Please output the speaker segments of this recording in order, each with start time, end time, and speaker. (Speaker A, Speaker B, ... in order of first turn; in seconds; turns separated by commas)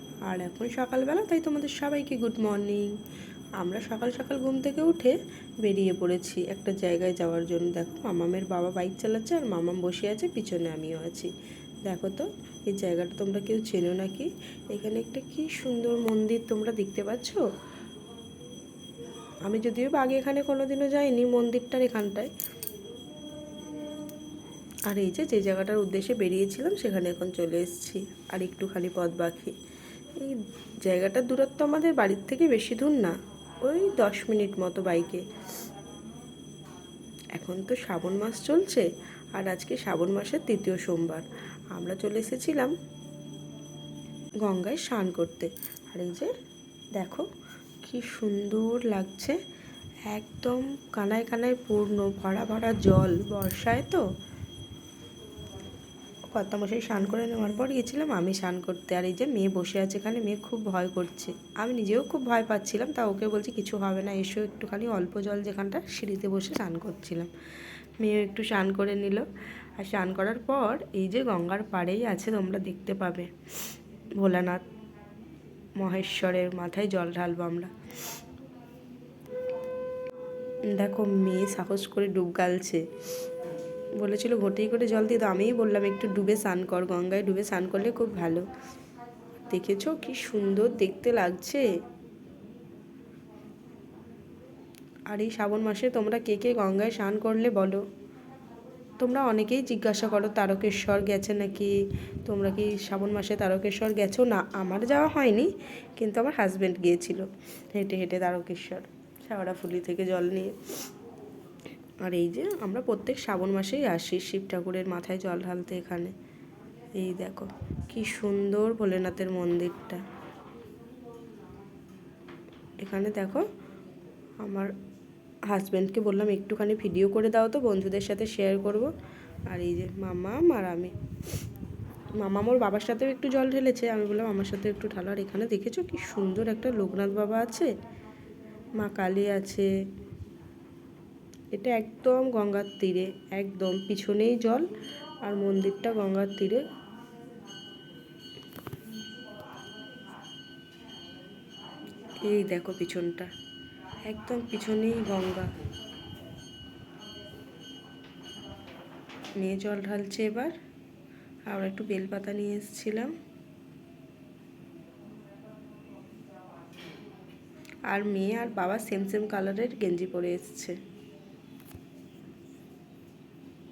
Speaker A: 0.3-2.9, Speaker A: 3.6-11.3, Speaker A: 11.9-17.4, Speaker A: 19.5-22.3, Speaker A: 24.9-29.6, Speaker A: 30.2-35.2, Speaker A: 37.4-42.7, Speaker A: 44.4-46.3, Speaker A: 47.0-47.2, Speaker A: 47.8-49.4, Speaker A: 50.1-54.0, Speaker A: 56.3-67.3, Speaker A: 68.0-69.3, Speaker A: 69.8-73.3, Speaker A: 74.2-74.6, Speaker A: 75.8-77.7, Speaker A: 80.7-82.8, Speaker A: 84.0-88.5, Speaker A: 89.5-91.7, Speaker A: 95.1-97.8, Speaker A: 99.0-101.7, Speaker A: 102.2-110.5, Speaker A: 112.0-116.1, Speaker A: 117.0-120.0, Speaker A: 122.8-123.5, Speaker A: 124.4-124.7, Speaker A: 125.5-128.9, Speaker A: 129.5-130.9, Speaker A: 132.2-137.7, Speaker A: 138.8-139.7, Speaker A: 141.5-144.7, Speaker A: 145.2-146.6, Speaker A: 152.2-153.3, Speaker A: 154.1-155.5, Speaker A: 159.4-160.5, Speaker A: 161.5-163.1, Speaker A: 167.9-170.8